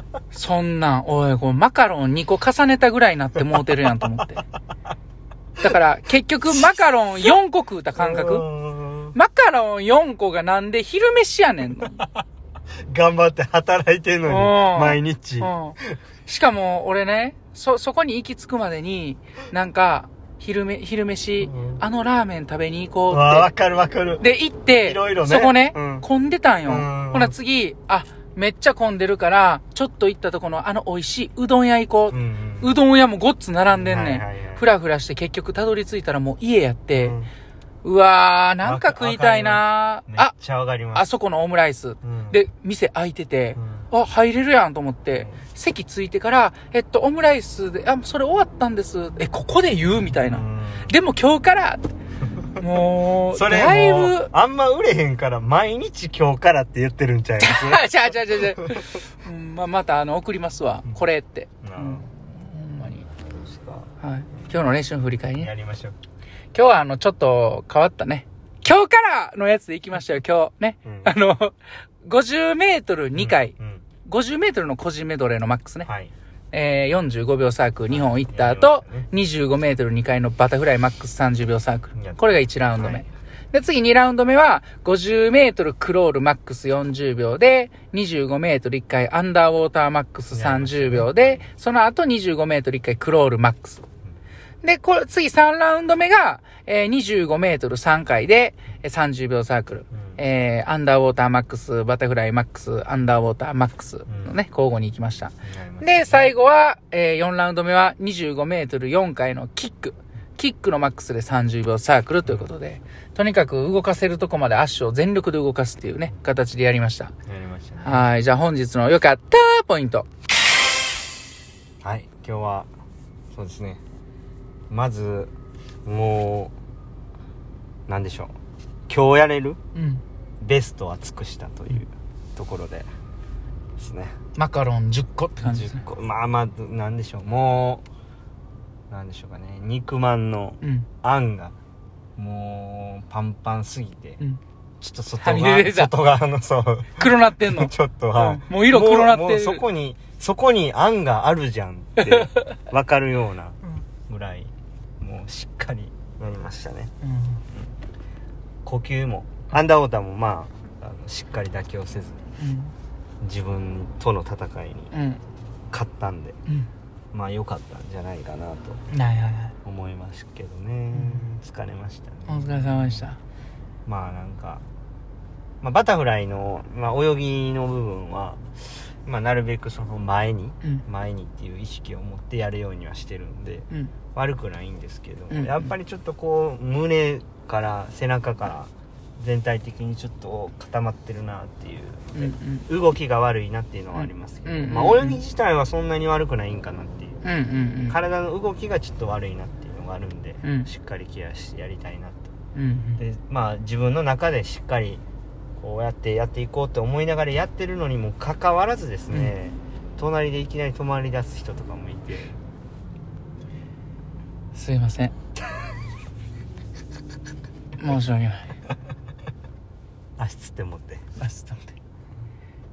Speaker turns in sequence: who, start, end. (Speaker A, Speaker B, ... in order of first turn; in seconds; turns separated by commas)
Speaker A: 0.3-4.4, Speaker A: 5.6-8.5, Speaker B: 6.5-7.3, Speaker B: 8.0-9.2, Speaker A: 9.1-12.0, Speaker B: 12.8-16.0, Speaker A: 14.2-23.5, Speaker B: 21.4-21.8, Speaker B: 23.1-24.2, Speaker A: 24.2-37.2, Speaker B: 24.8-26.1, Speaker B: 26.7-27.3, Speaker B: 32.1-32.8, Speaker B: 33.7-34.6, Speaker B: 36.9-37.3, Speaker A: 37.8-40.3, Speaker B: 38.6-41.1, Speaker A: 40.9-51.9, Speaker B: 42.0-42.4, Speaker B: 43.5-43.9, Speaker B: 45.1-45.4, Speaker B: 50.2-51.0, Speaker A: 52.6-54.3, Speaker B: 53.3-58.9, Speaker A: 57.4-63.1, Speaker B: 61.6-62.0, Speaker B: 63.3-63.9, Speaker A: 64.0-65.5, Speaker B: 65.3-66.0, Speaker A: 66.5-75.9, Speaker B: 70.8-71.1, Speaker B: 73.2-73.8, Speaker B: 75.8-76.1, Speaker A: 76.5-93.8, Speaker B: 77.9-79.1, Speaker B: 81.9-83.0, Speaker B: 90.3-91.4, Speaker A: 94.6-117.1, Speaker B: 99.9-100.2, Speaker B: 104.1-104.3, Speaker B: 105.4-106.3, Speaker B: 117.3-118.1, Speaker A: 117.8-120.1, Speaker B: 121.8-122.7, Speaker B: 123.3-123.8, Speaker B: 124.7-125.3, Speaker B: 125.8-126.5, Speaker B: 127.9-128.3, Speaker B: 128.9-129.6, Speaker A: 129.7-130.0, Speaker B: 130.4-132.9, Speaker B: 133.8-134.1, Speaker A: 134.3-135.8, Speaker B: 135.4-137.8, Speaker B: 138.9-141.5, Speaker A: 140.6-140.9, Speaker B: 142.2-144.2, Speaker B: 144.8-156.9, Speaker A: 145.2-145.9, Speaker A: 147.0-149.6, Speaker A: 157.0-157.4, Speaker B: 158.6-162.2, Speaker A: 162.4-162.7, Speaker B: 163.2-164.9, Speaker A: 164.9-165.2, Speaker B: 165.7-166.4, Speaker B: 167.1-168.8, Speaker A: 168.9-169.5, Speaker B: 169.6-173.1, Speaker A: 170.9-171.3, Speaker A: 172.3-173.2, Speaker B: 173.8-174.6, Speaker B: 175.6-197.2, Speaker A: 185.3-185.7, Speaker A: 192.1-192.6, Speaker A: 193.9-195.2, Speaker A: 197.2-198.0, Speaker B: 197.9-202.3, Speaker A: 200.4-200.7, Speaker A: 202.5-203.0, Speaker B: 203.0-205.0, Speaker B: 205.6-212.3, Speaker A: 214.5-215.1, Speaker A: 217.8-218.5, Speaker B: 220.2-221.0, Speaker A: 221.2-221.7